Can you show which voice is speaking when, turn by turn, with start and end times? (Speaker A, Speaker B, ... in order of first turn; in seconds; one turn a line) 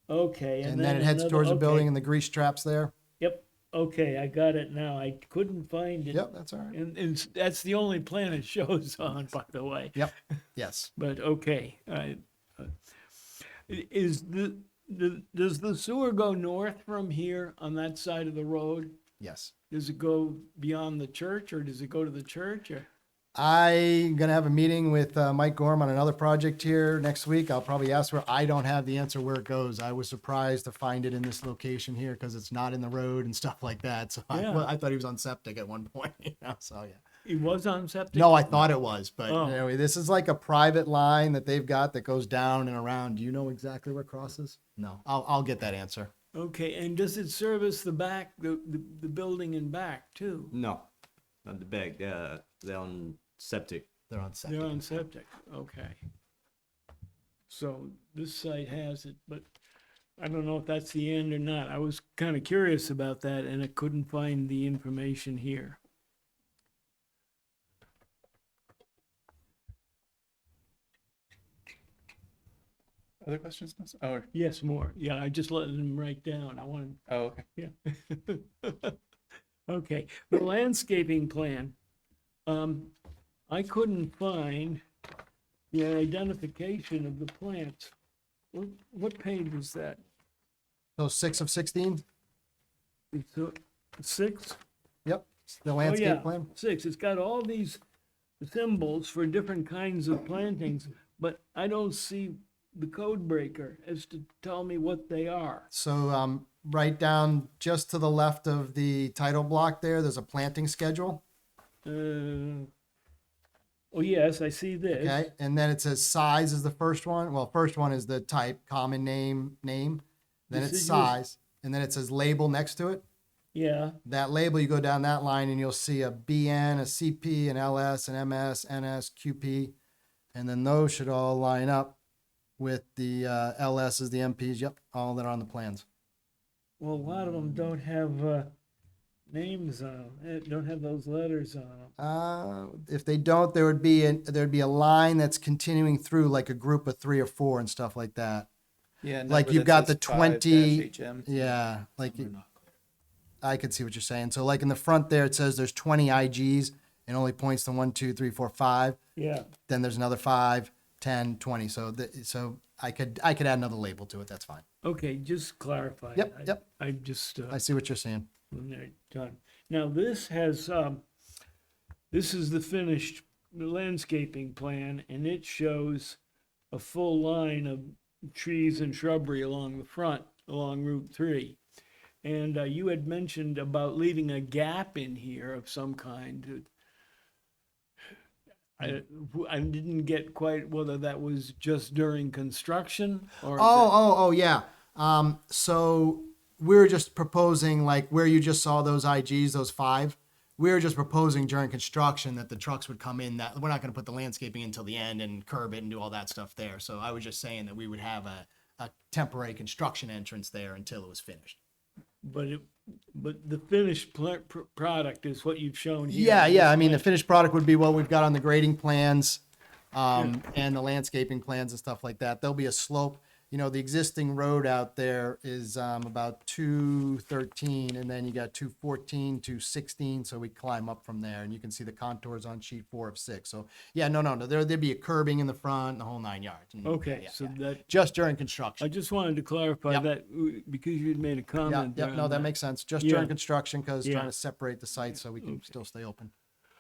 Speaker A: 0.1-1.9
Speaker B: 0.6-2.9
Speaker A: 3.2-10.2
Speaker B: 6.1-6.8
Speaker B: 10.0-10.9
Speaker A: 11.0-12.7
Speaker A: 13.4-19.0
Speaker B: 19.2-19.5
Speaker A: 19.7-22.9
Speaker B: 23.4-37.0
Speaker A: 34.3-34.7
Speaker A: 37.2-38.7
Speaker B: 38.1-46.1
Speaker A: 39.3-39.6
Speaker A: 46.3-50.5
Speaker C: 50.5-50.9
Speaker C: 51.5-53.9
Speaker B: 54.1-54.9
Speaker A: 54.4-56.0
Speaker A: 57.5-59.5
Speaker A: 60.2-65.8
Speaker D: 73.2-74.3
Speaker A: 74.3-77.0
Speaker D: 77.1-77.5
Speaker A: 77.6-79.0
Speaker A: 79.7-81.8
Speaker A: 82.5-83.0
Speaker A: 83.5-84.8
Speaker A: 85.7-87.9
Speaker A: 88.5-90.0
Speaker B: 91.0-92.0
Speaker A: 93.1-94.6
Speaker B: 95.0-96.5
Speaker A: 95.8-97.8
Speaker A: 98.4-105.7
Speaker B: 105.7-111.2
Speaker A: 111.8-112.7
Speaker A: 113.9-115.3
Speaker B: 114.9-123.0
Speaker A: 120.5-121.2
Speaker A: 123.5-124.0
Speaker B: 124.0-129.8
Speaker B: 130.3-132.0
Speaker B: 132.6-135.8
Speaker A: 136.8-138.5
Speaker A: 139.3-141.9
Speaker B: 142.0-148.5
Speaker D: 149.0-151.3
Speaker B: 149.3-152.4
Speaker B: 153.4-159.0
Speaker A: 159.2-159.5
Speaker B: 159.7-164.6
Speaker A: 164.8-167.6
Speaker B: 166.2-166.6
Speaker B: 167.5-168.3
Speaker A: 168.5-171.0
Speaker A: 172.1-176.2
Speaker A: 176.7-181.6
Speaker A: 182.2-186.7
Speaker A: 188.8-193.9
Speaker B: 193.6-211.6
Speaker A: 212.2-217.1
Speaker B: 216.1-219.4
Speaker B: 219.9-238.9
Speaker A: 236.8-237.9
Speaker A: 238.8-243.3
Speaker B: 241.6-246.3
Speaker A: 244.0-244.3
Speaker A: 245.2-245.7